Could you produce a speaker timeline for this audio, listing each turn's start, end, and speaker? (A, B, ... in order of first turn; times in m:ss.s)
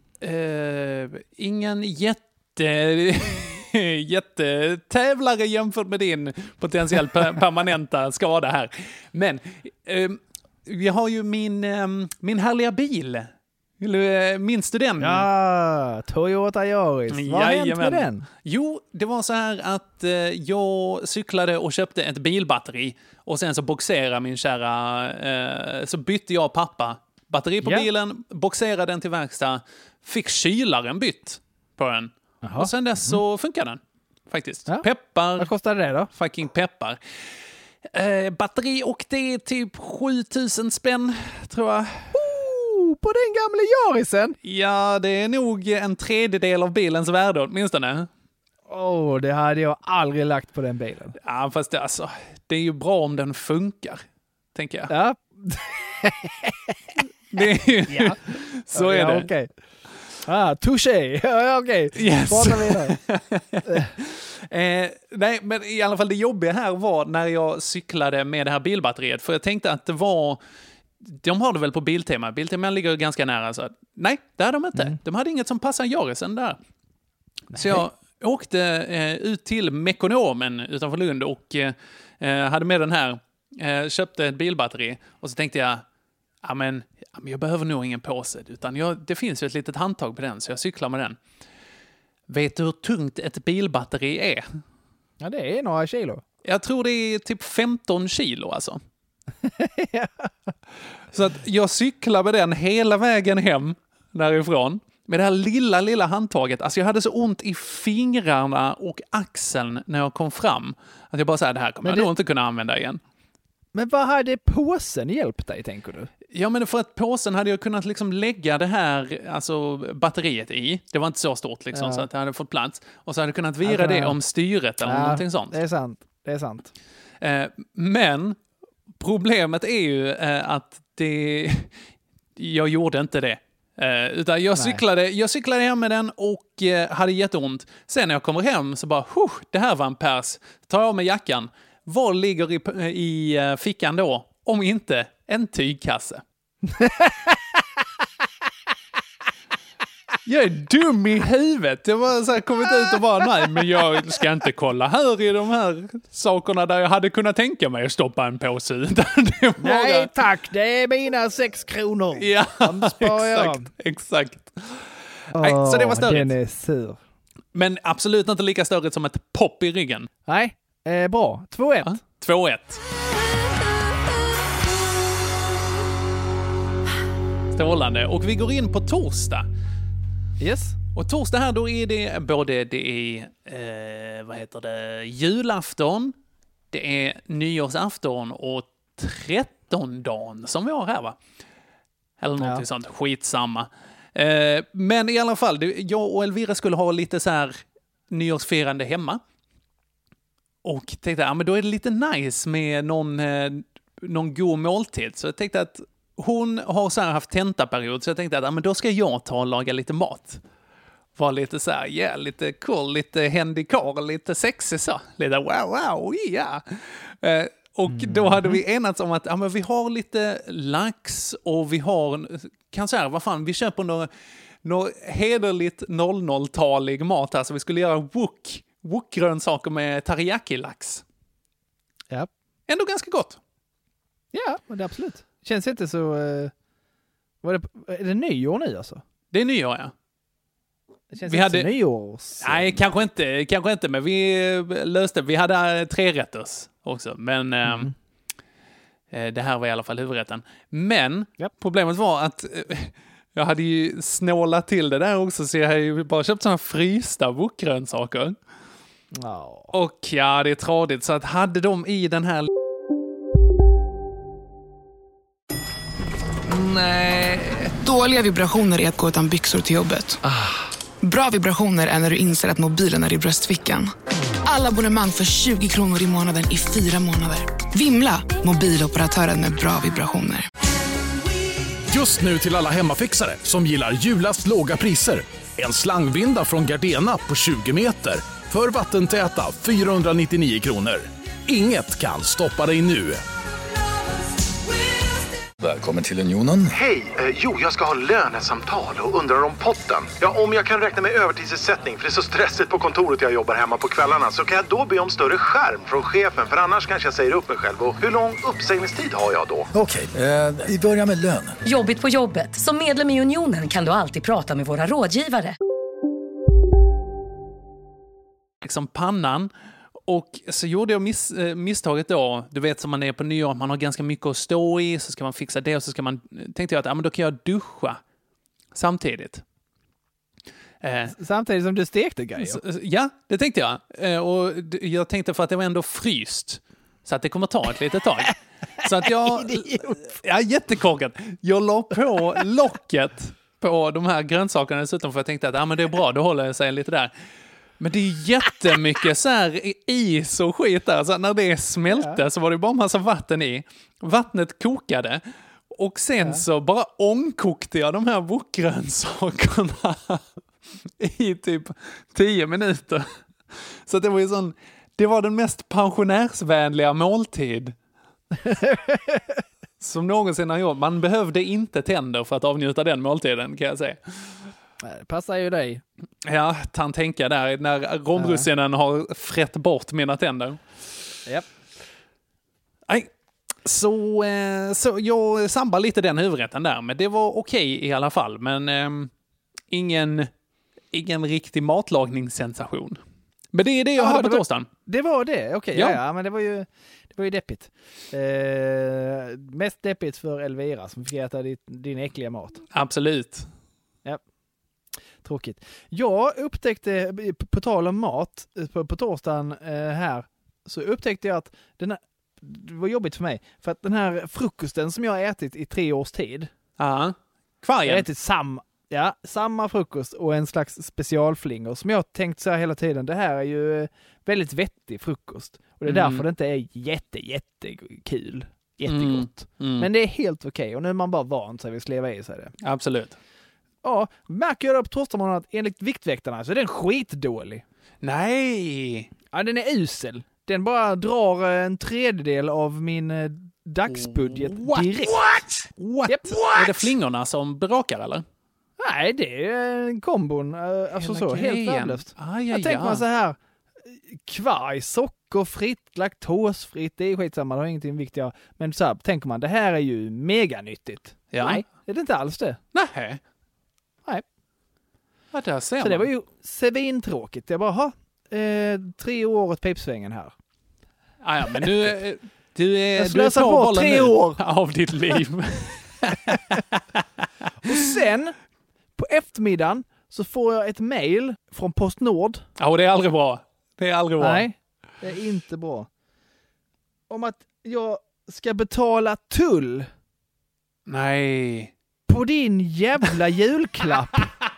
0:00.2-0:15.3 A
0:15.0-0:18.2 B
0:17.1-0:35.5 A
0:32.4-0:33.2 B
0:35.4-0:36.1 B
0:36.1-0:37.3 A
0:37.9-0:42.1 A
0:42.1-0:44.4 B
0:44.4-0:48.1 A
0:48.7-0:51.2 B
0:51.2-0:54.0 A
0:54.6-0:54.9 A
0:54.9-0:56.8 B
0:57.3-0:59.3 A
0:57.9-0:58.2 B
0:58.7-0:59.5 B
1:00.2-1:03.0 B
1:02.0-1:10.4 A
1:03.7-1:03.9 B
1:11.0-1:16.6 A
1:17.5-1:25.8 A
1:17.6-1:17.8 B
1:26.4-1:31.2 A
1:32.3-1:34.5 A
1:35.2-1:36.2 B
1:36.4-1:38.8 A
1:39.4-1:40.3 B
1:41.1-1:53.0 A
1:53.7-1:56.1 B
1:56.3-2:05.6 A
2:01.7-2:02.1 B
2:03.6-2:04.2 B
2:04.8-2:06.7 B
2:07.2-2:08.4 A
2:09.0-2:11.7 A
2:12.4-2:26.2 A
2:14.6-2:14.8 B
2:26.7-2:27.3 B
2:30.2-2:40.1 A
2:39.6-2:43.7 B
2:42.2-2:46.3 A
2:45.3-2:47.0 B
2:47.6-2:50.1 A
2:50.3-2:52.0 B
2:51.8-2:52.8 A
2:57.5-2:59.5 A
3:00.4-3:00.8 B
3:01.0-3:06.2 A
3:06.7-3:11.2 A
3:12.2-3:19.2 A
3:12.4-3:12.6 B
3:20.6-3:30.4 A
3:31.2-3:44.1 A
3:37.9-3:38.6 B
3:44.6-3:51.0 A
3:52.7-3:53.4 A
3:54.3-3:56.5 B
3:57.4-3:59.0 B
3:59.3-3:59.9 A
4:01.1-4:02.8 B
4:01.3-4:01.7 A
4:02.4-4:07.9 A
4:07.7-4:07.9 B
4:09.1-4:18.4 A
4:19.1-4:19.7 B
4:19.7-4:22.5 A
4:26.5-4:30.2 C
4:31.0-4:40.5 C
4:41.9-4:53.2 D
4:55.6-4:56.7 E
4:56.7-5:09.7 F
5:09.7-5:11.6 E
5:11.6-5:15.6 G
5:18.6-5:19.5 A
5:20.1-5:28.0 A
5:28.7-5:29.4 A
5:30.8-5:31.2 A
5:31.2-5:32.6 B
5:32.4-5:47.1 A
5:39.1-5:40.0 B
5:47.8-6:00.2 A
6:01.0-6:07.8 A
6:08.4-6:09.4 B
6:09.8-6:14.4 A
6:14.8-6:15.8 B
6:16.2-6:20.6 A
6:18.2-6:18.4 B
6:23.6-6:29.1 A
6:29.7-6:30.3 A
6:30.9-6:33.0 A
6:33.5-6:34.7 A
6:34.0-6:42.6 B
6:42.7-6:43.5 A
6:45.2-6:56.5 B
6:56.8-6:58.1 A
6:57.9-7:12.5 B
7:05.8-7:06.2 A
7:08.9-7:09.9 A
7:12.6-7:13.2 A
7:13.8-7:17.6 B
7:18.0-7:19.1 A
7:19.3-7:25.2 B
7:23.9-7:28.3 A
7:26.1-7:26.9 B
7:28.8-7:42.6 B
7:31.0-7:33.0 A
7:41.3-7:41.6 A
7:42.7-7:43.2 A
7:45.3-7:46.1 A
7:45.8-7:50.3 B
7:51.2-7:57.0 A
7:53.0-7:54.4 B
7:57.6-7:58.4 B
7:59.0-8:02.4 B
8:02.6-8:04.5 A
8:04.2-8:05.9 B
8:07.1-8:09.9 B
8:10.9-8:11.7 A
8:12.1-8:14.3 B